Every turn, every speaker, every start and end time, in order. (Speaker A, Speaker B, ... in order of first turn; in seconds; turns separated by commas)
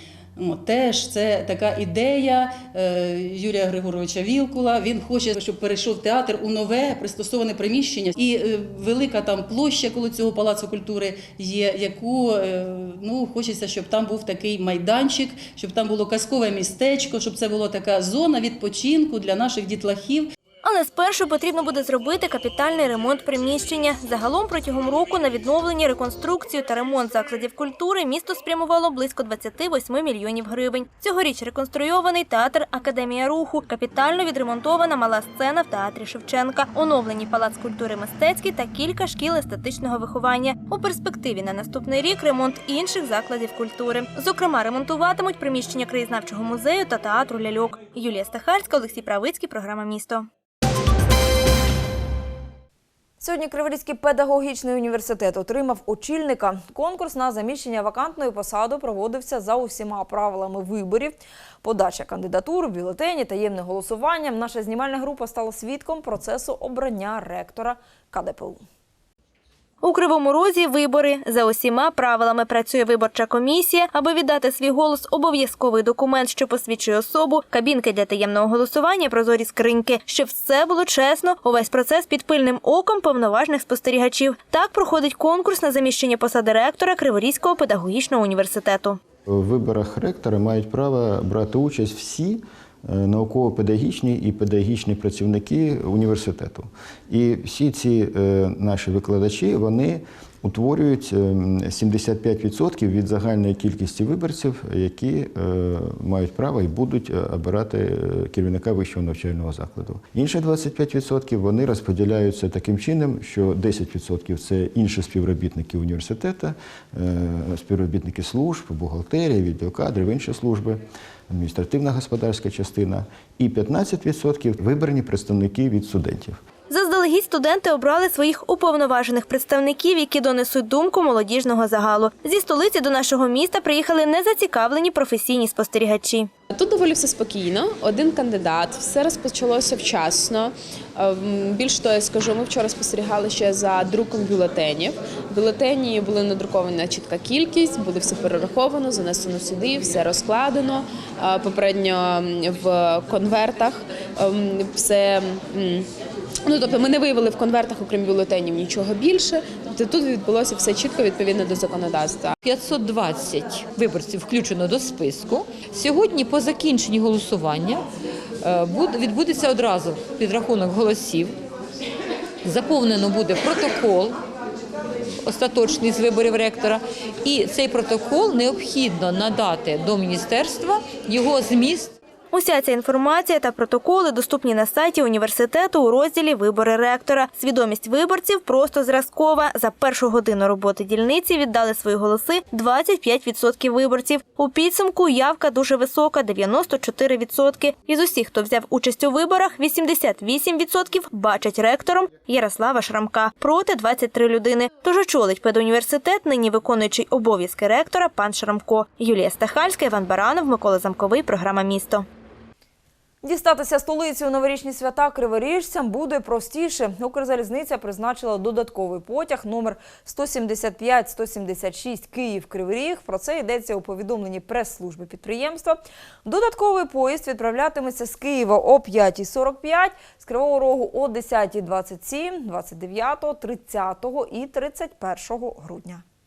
Speaker A: 0.4-20.3, Speaker B: 20.6-50.3, Speaker C: 53.2-68.6, Speaker B: 69.8-89.0, Speaker D: 89.3-126.4, Speaker B: 126.7-136.3, Speaker E: 136.5-155.9, Speaker E: 156.5-162.4, Speaker F: 162.5-167.8, Speaker F: 168.5-171.3, Speaker F: 172.5-174.1, Speaker F: 175.3-181.9, Speaker B: 182.3-212.1, Speaker C: 213.2-236.0